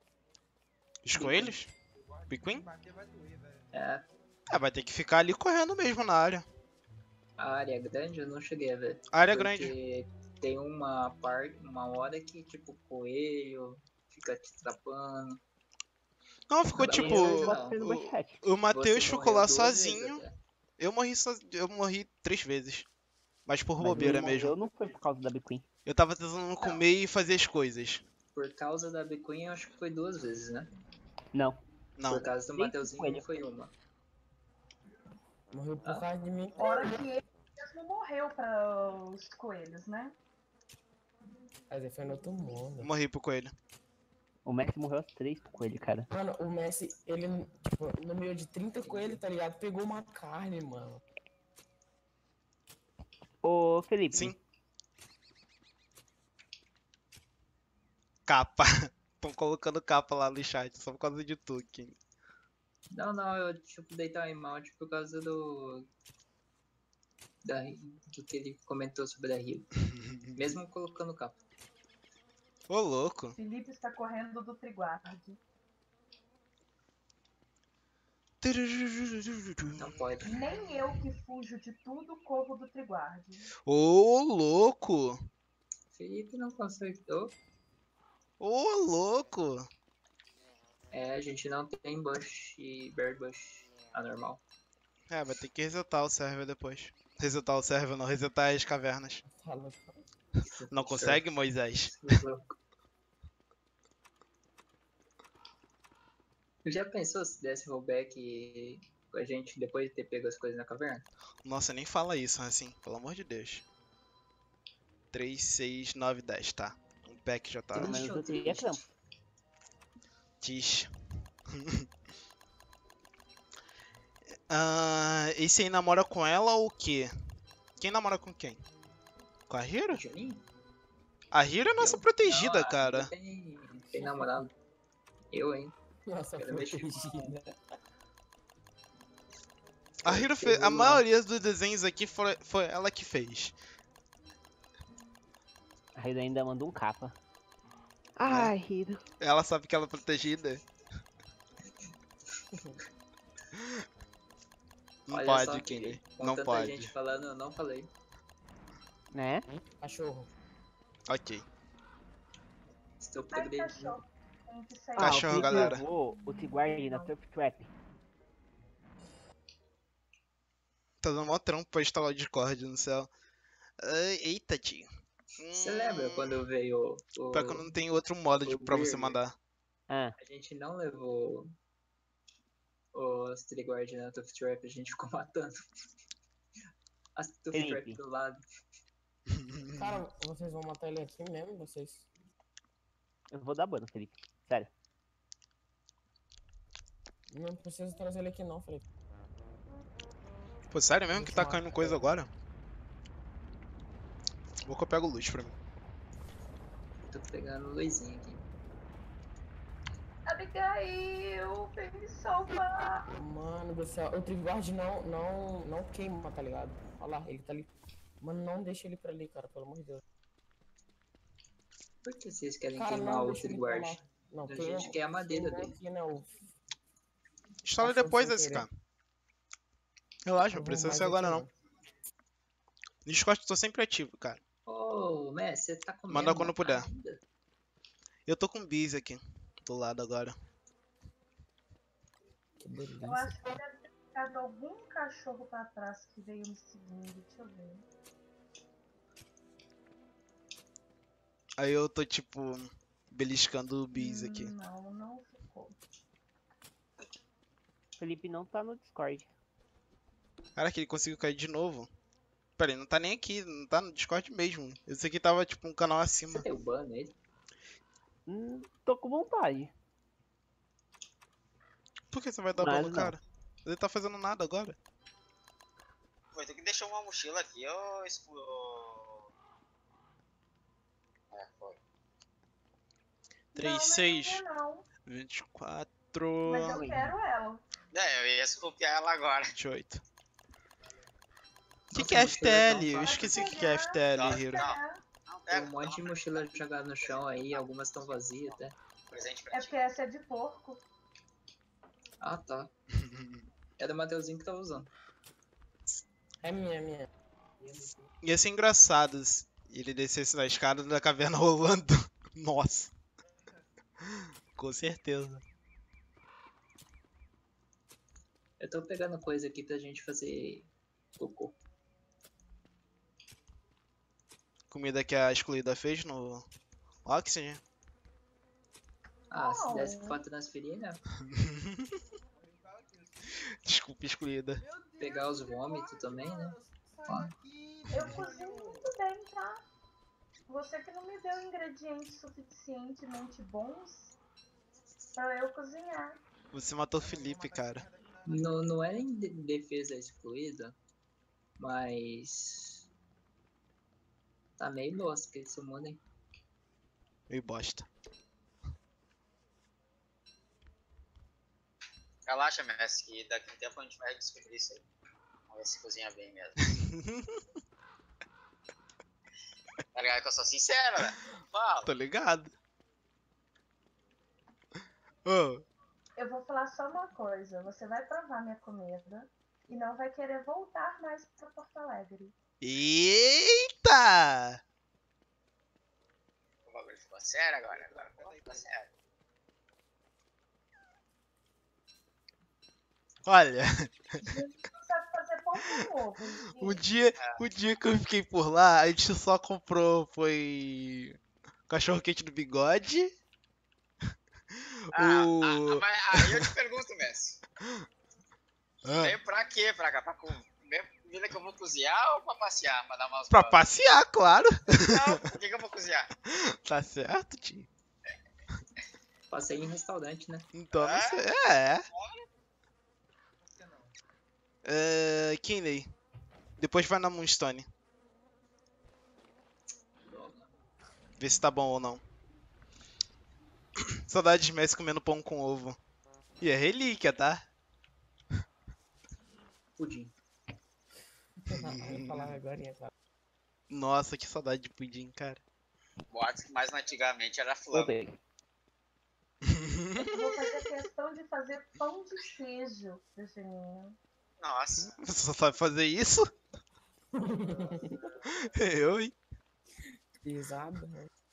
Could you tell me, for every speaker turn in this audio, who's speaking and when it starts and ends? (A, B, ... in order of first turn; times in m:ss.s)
0:01.0-0:01.7 A
0:01.2-0:01.5 B
0:01.8-0:03.7 C
0:02.3-0:02.6 A
0:03.7-0:04.0 B
0:04.5-0:06.4 A
0:07.4-0:15.4 B
0:09.1-0:09.7 A
0:16.5-0:20.2 A
0:16.7-0:17.8 B
0:16.8-0:18.4 D
0:18.7-0:20.4 B
0:20.8-0:22.9 A
0:23.5-0:24.5 A
0:23.8-0:25.6 D
0:25.8-0:28.0 A
0:28.3-0:30.7 B
0:31.3-0:31.6 D
0:32.0-0:32.3 A
0:32.1-0:33.7 B
0:32.5-0:33.2 D
0:35.5-0:37.0 E
0:36.6-0:40.2 F
0:41.7-0:42.9 E
0:42.8-0:43.5 A
0:44.4-0:46.1 D
0:46.1-0:51.0 E
0:48.8-0:49.2 B
0:53.4-0:54.3 D
0:58.3-1:02.0 A
1:02.9-1:05.9 B
1:07.4-1:09.7 B
1:09.8-1:10.4 A
1:10.4-1:11.4 B
1:12.7-1:13.4 A
1:13.4-1:15.4 F
1:18.4-1:20.0 A
1:19.7-1:20.4 B
1:20.2-1:23.5 F
1:23.6-1:25.2 A
1:25.9-1:27.4 B
1:28.4-1:29.7 A
1:30.9-1:34.4 B
1:35.1-1:39.2 A
1:39.2-1:40.0 E
1:40.4-1:41.2 B
1:40.7-1:42.2 A
1:41.9-1:42.5 B
1:46.6-1:51.0 B
1:51.4-1:53.6 A
1:55.1-1:58.0 A
1:57.7-1:58.8 D
1:57.7-1:58.8 B
2:00.4-2:00.9 A
2:01.5-2:01.8 A
2:04.5-2:07.1 A
2:07.8-2:08.6 A
2:09.5-2:10.0 A
2:09.9-2:10.4 B
2:11.3-2:13.1 A
2:11.8-2:14.5 B
2:13.9-2:14.4 E
2:15.3-2:15.7 B
2:16.1-2:17.6 E
2:16.4-2:17.3 B
2:20.0-2:23.5 A
2:20.1-2:21.0 D
2:26.0-2:27.2 D
2:28.2-2:29.0 D
2:28.2-2:28.5 A
2:29.2-2:30.6 A
2:33.5-2:33.8 A
2:35.1-2:36.9 A
2:35.1-2:37.9 B
2:39.1-2:39.4 D
2:39.8-2:40.3 E
2:41.1-2:41.4 A
2:43.0-2:44.0 B
2:43.3-2:47.1 F
2:45.0-2:47.7 D
2:45.0-2:45.8 A
2:51.0-2:53.1 A
2:53.8-2:54.8 A
2:55.4-2:56.4 A
2:55.5-2:57.6 B
2:57.3-2:59.3 A
2:58.4-2:59.2 D
2:59.9-3:00.1 D
3:00.2-3:01.5 B
3:02.9-3:05.5 B
3:07.2-3:08.4 B
3:07.5-3:08.0 D
3:09.3-3:10.0 A
3:09.8-3:12.1 E
3:13.3-3:14.7 D
3:17.3-3:18.8 E
3:20.7-3:22.3 A
3:21.1-3:22.1 E
3:24.6-3:25.6 A
3:27.1-3:28.4 B
3:30.2-3:33.1 F
3:33.1-3:40.0 E
3:42.0-3:45.7 B
3:42.7-3:46.3 E
3:47.6-3:48.7 A
3:47.8-3:48.7 E
3:50.2-3:51.4 A
3:50.5-3:51.5 E
3:53.0-3:54.4 A
3:54.6-3:57.2 B
3:56.1-3:56.9 A
3:58.3-4:00.3 A
4:02.6-4:03.4 E
4:03.0-4:07.8 F
4:11.6-4:14.5 A
4:13.9-4:15.8 F
4:18.0-4:19.3 D
4:20.6-4:21.9 A
4:22.6-4:26.4 A
4:26.3-4:27.1 B
4:28.3-4:29.7 D
4:32.1-4:34.8 A
4:32.6-4:33.2 D
4:36.3-4:39.3 G
4:41.3-4:41.8 G
4:43.5-4:44.4 A
4:43.5-4:44.9 F
4:45.0-4:46.8 A
4:46.4-4:47.6 F
4:46.7-4:47.1 D
4:47.9-4:49.5 G
4:49.5-4:50.0 A
4:50.8-4:51.2 C
4:51.9-4:54.7 A
4:51.9-4:53.3 B
4:52.9-4:55.0 F
4:54.1-4:56.5 G
4:55.5-4:58.7 B
4:57.0-4:59.8 G
4:59.5-5:00.8 F
5:02.2-5:02.7 B
5:02.9-5:03.5 A
5:03.8-5:04.9 B
5:06.4-5:07.0 E
5:08.2-5:12.9 A
5:14.0-5:15.4 A
5:18.6-5:21.6 B
5:24.7-5:26.4 A
5:27.0-5:27.6 A
5:29.3-5:31.0 B
5:29.3-5:30.2 F
5:31.2-5:31.9 A
5:32.3-5:33.4 C
5:33.5-5:34.6 A
5:34.6-5:38.9 C
5:35.0-5:36.6 B
5:37.9-5:38.2 A
5:37.9-5:39.6 F
5:40.5-5:44.2 F
5:45.2-5:46.2 F
5:46.5-5:47.8 A
5:46.9-5:49.0 C
5:48.2-5:50.7 B
5:51.6-5:52.8 B
5:54.6-5:56.0 B
5:57.3-5:57.9 A
6:02.2-6:04.8 G
6:05.5-6:06.5 G
6:06.6-6:07.4 A
6:09.9-6:12.0 G
6:11.8-6:12.5 A
6:15.2-6:15.6 A
6:16.2-6:22.3 F
6:22.6-6:24.6 A
6:26.7-6:28.8 G
6:27.6-6:28.9 C
6:33.2-6:34.4 A
6:34.2-6:36.8 F
6:35.6-6:35.9 A
6:36.5-6:41.2 A
6:37.2-6:37.4 G
6:41.7-6:43.1 A
6:44.9-6:46.5 A
6:44.9-6:47.4 G
6:47.6-6:47.8 A
6:48.8-6:49.2 A
6:49.0-6:53.6 G
6:53.3-6:55.2 A
6:54.8-6:56.1 G
6:56.2-6:57.7 A
6:59.3-7:00.5 B
7:00.5-7:01.8 A
7:00.7-7:01.2 G
7:01.9-7:02.2 G
7:03.4-7:03.9 C
7:04.6-7:05.9 A
7:06.6-7:07.7 A
7:10.0-7:10.5 B
7:11.2-7:12.0 A
7:13.8-7:15.8 A
7:16.4-7:17.4 A
7:19.8-7:20.1 B
7:21.5-7:22.9 E
7:21.5-7:22.3 A
7:23.7-7:25.4 A
7:26.1-7:28.0 G
7:27.7-7:28.2 D
7:29.4-7:30.5 A
7:30.0-7:34.0 F
7:34.4-7:35.0 G
7:34.8-7:36.3 A
7:37.2-7:38.0 E
7:37.3-7:38.5 C
7:38.3-7:39.2 A
7:40.2-7:41.1 E